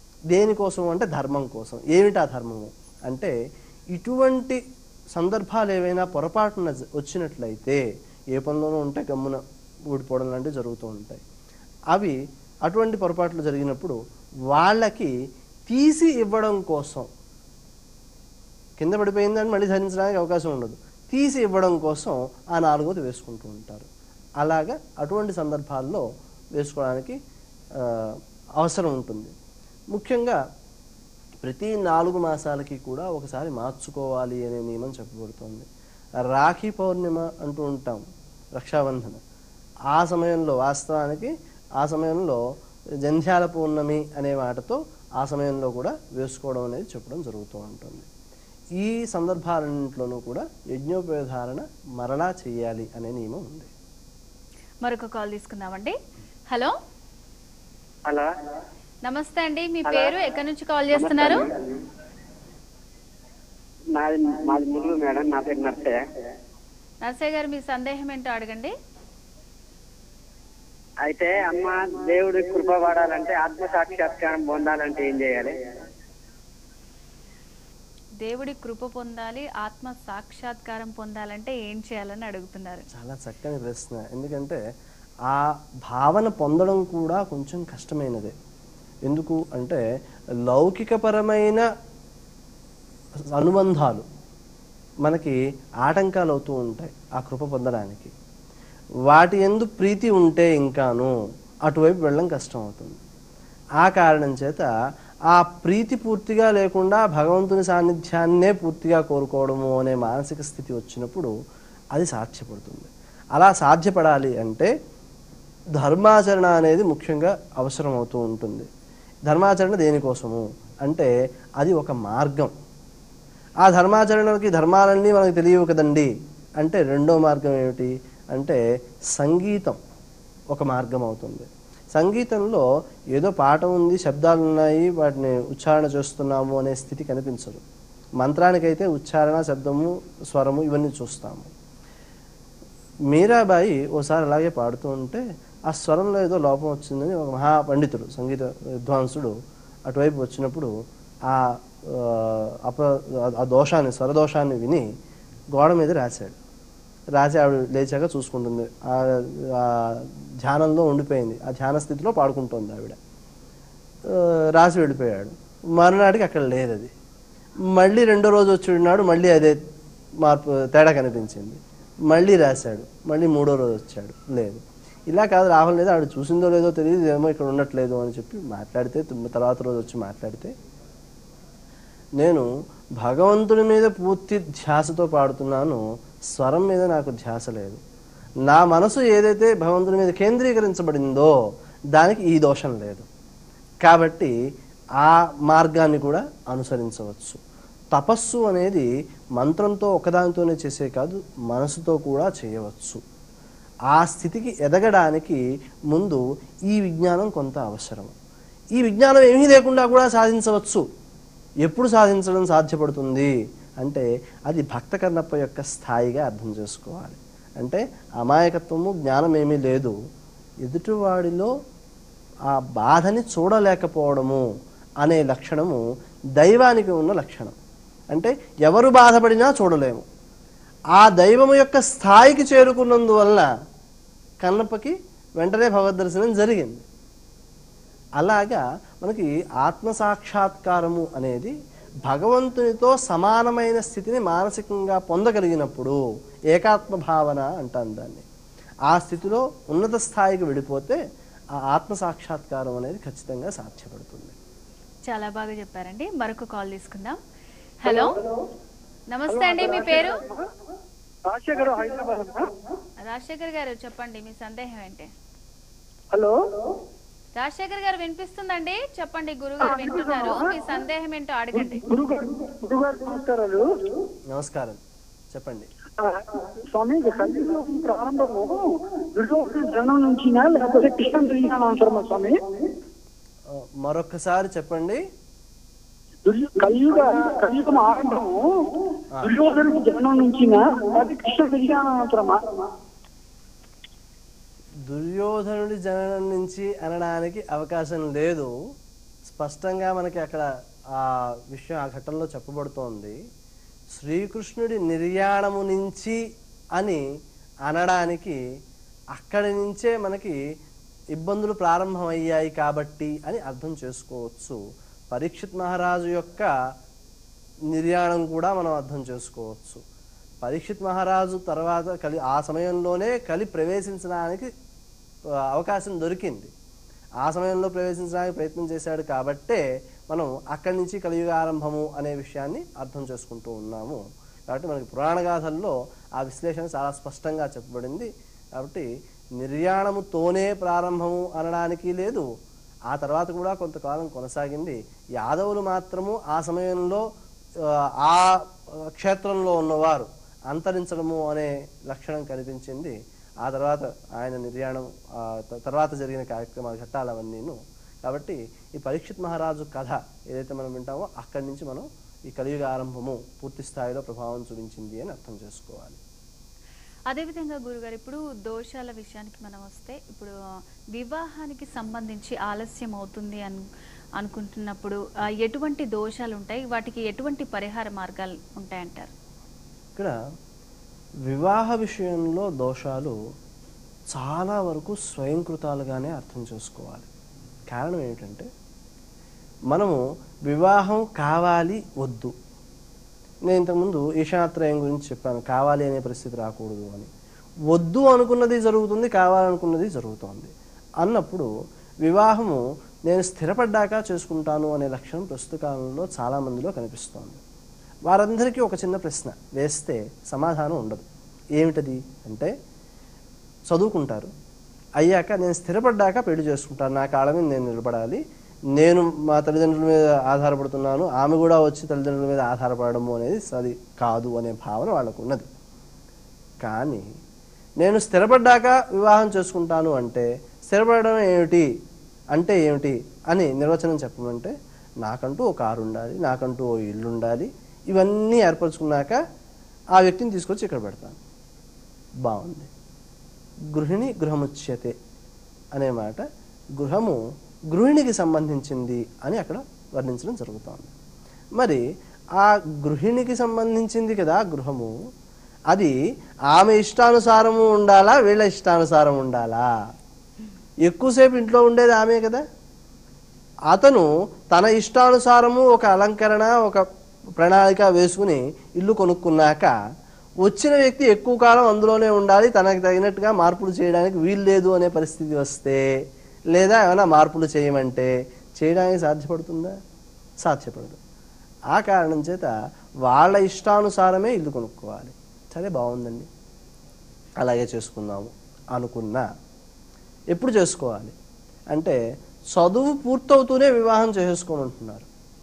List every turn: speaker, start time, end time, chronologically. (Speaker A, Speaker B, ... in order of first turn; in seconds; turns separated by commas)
Speaker A: 0.3-3.3, Speaker A: 3.9-4.6, Speaker A: 5.1-11.2, Speaker A: 11.9-14.0, Speaker A: 14.5-15.1, Speaker A: 15.7-17.1, Speaker A: 18.8-23.9, Speaker A: 24.4-26.0, Speaker A: 26.6-27.2, Speaker A: 27.8-29.3, Speaker A: 29.9-30.4, Speaker A: 31.4-35.6, Speaker A: 36.2-38.0, Speaker A: 38.5-39.2, Speaker A: 39.9-42.4, Speaker A: 43.0-48.0, Speaker A: 48.8-53.7, Speaker B: 54.8-56.0, Speaker B: 59.0-61.5, Speaker C: 59.9-60.1, Speaker C: 60.9-61.5, Speaker C: 64.0-66.0, Speaker B: 67.0-68.7, Speaker C: 71.0-75.5, Speaker B: 78.2-82.8, Speaker A: 82.9-84.6, Speaker A: 85.3-88.3, Speaker A: 89.0-89.8, Speaker A: 90.5-91.7, Speaker A: 93.3-94.0, Speaker A: 95.0-98.1, Speaker A: 99.1-101.1, Speaker A: 101.7-103.0, Speaker A: 103.8-104.7, Speaker A: 105.3-111.3, Speaker A: 111.9-114.7, Speaker A: 115.8-118.7, Speaker A: 119.3-122.5, Speaker A: 123.6-129.8, Speaker A: 130.5-137.6, Speaker A: 138.2-141.5, Speaker A: 143.1-149.3, Speaker A: 149.8-150.7, Speaker A: 151.3-154.8, Speaker A: 155.5-156.4, Speaker A: 157.2-163.0, Speaker A: 164.1-166.9, Speaker A: 167.7-169.6, Speaker A: 170.2-180.5, Speaker A: 182.2-182.5, Speaker A: 183.0-187.8, Speaker A: 188.5-191.3, Speaker A: 191.9-193.1, Speaker A: 193.8-194.3, Speaker A: 195.0-197.4, Speaker A: 197.9-203.0, Speaker A: 203.9-208.1, Speaker A: 208.8-210.8, Speaker A: 211.7-219.9, Speaker A: 220.6-221.5, Speaker A: 222.5-224.4, Speaker A: 225.0-225.8, Speaker A: 226.4-227.5, Speaker A: 228.1-230.0, Speaker A: 230.9-233.5, Speaker A: 234.4-236.8, Speaker A: 238.2-241.5, Speaker A: 242.1-246.0, Speaker A: 246.5-248.2, Speaker A: 248.9-251.0, Speaker A: 251.6-254.3, Speaker B: 255.1-257.2, Speaker B: 257.8-258.1, Speaker D: 257.9-258.2, Speaker B: 259.1-260.2, Speaker D: 259.3-260.4, Speaker D: 261.3-262.5, Speaker B: 263.0-265.1, Speaker B: 267.4-271.8, Speaker D: 269.6-270.5, Speaker D: 271.5-273.7, Speaker A: 274.3-274.8, Speaker A: 275.3-275.7, Speaker D: 276.0-278.5, Speaker D: 279.1-282.4, Speaker A: 283.5-285.0, Speaker D: 286.2-288.4, Speaker D: 289.2-292.6, Speaker A: 294.9-298.5, Speaker A: 299.3-303.1, Speaker A: 303.9-306.2, Speaker A: 306.8-307.0, Speaker A: 307.6-308.4, Speaker A: 309.1-310.4, Speaker A: 311.1-314.6, Speaker A: 315.1-316.5, Speaker A: 317.7-319.8, Speaker A: 320.4-324.5, Speaker A: 325.5-326.5, Speaker A: 327.2-338.9, Speaker A: 339.4-342.2, Speaker A: 342.9-347.0, Speaker A: 347.6-348.3, Speaker A: 348.9-366.0, Speaker B: 367.1-370.3, Speaker B: 370.9-373.6, Speaker B: 374.2-379.1, Speaker A: 381.3-383.1, Speaker A: 384.1-387.1, Speaker A: 387.7-388.5, Speaker A: 389.7-392.3, Speaker A: 393.5-397.1, Speaker A: 397.7-401.5, Speaker A: 402.0-407.4, Speaker A: 408.1-411.0, Speaker A: 411.6-412.5, Speaker A: 413.7-414.3, Speaker A: 415.0-418.2, Speaker A: 418.8-425.4, Speaker A: 426.6-427.0, Speaker A: 427.8-431.7, Speaker A: 432.3-434.5, Speaker A: 435.0-439.2, Speaker A: 440.0-441.2, Speaker A: 442.2-442.7, Speaker A: 443.7-444.9, Speaker A: 445.7-446.2, Speaker A: 446.8-447.2, Speaker A: 447.7-450.9, Speaker A: 451.6-451.8, Speaker A: 452.4-454.9, Speaker A: 456.5-459.6, Speaker A: 460.9-462.4, Speaker A: 463.7-466.8, Speaker A: 467.4-469.7, Speaker A: 470.4-475.8, Speaker A: 476.5-479.7, Speaker A: 480.4-481.0, Speaker A: 481.7-482.5, Speaker A: 483.1-486.3, Speaker A: 487.4-489.2, Speaker A: 490.3-491.1, Speaker A: 492.5-495.1